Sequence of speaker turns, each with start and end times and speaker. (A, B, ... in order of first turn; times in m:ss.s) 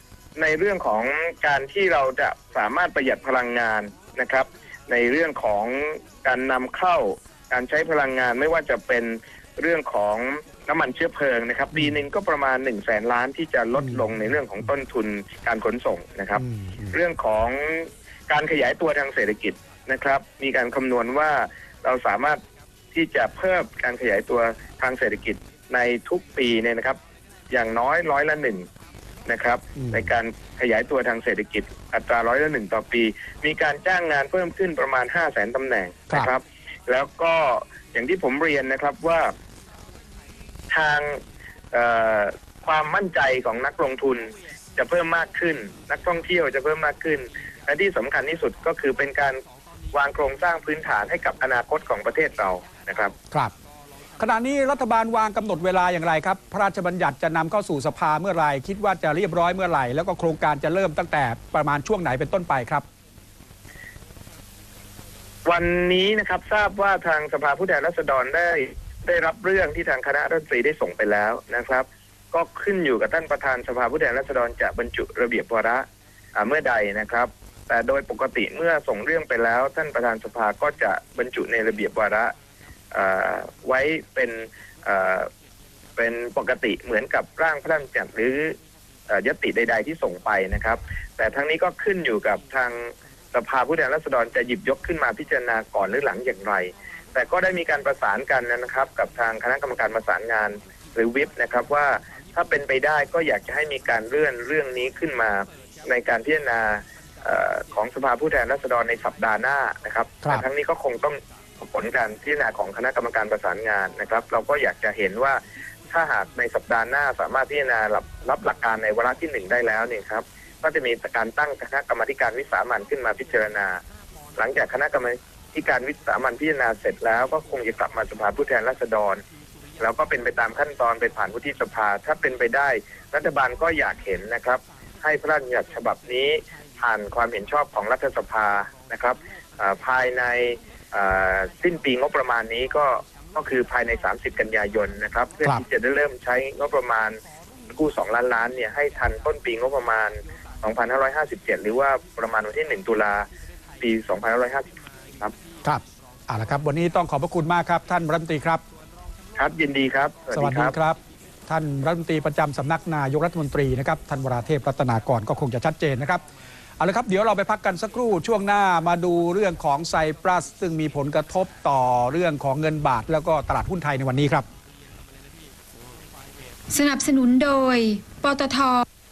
0:00.4-0:22.4 A
0:16.5-0:16.9 B
0:22.9-0:27.0 A
0:27.5-0:28.7 A
0:29.3-0:39.3 A
0:40.7-0:41.2 A
0:41.7-0:49.4 A
0:49.9-0:53.1 A
0:54.2-1:02.8 B
1:05.5-1:22.3 A
1:22.9-1:25.3 A
1:26.0-1:28.6 A
1:29.1-1:55.4 A
1:55.9-2:03.8 A
2:04.4-2:09.2 A
2:09.8-2:27.2 A
2:27.7-2:33.3 A
2:33.8-2:34.7 A
2:35.6-2:38.6 B
2:39.4-2:40.7 A
2:40.3-2:46.2 B
2:46.8-2:54.4 B
2:56.7-2:58.8 C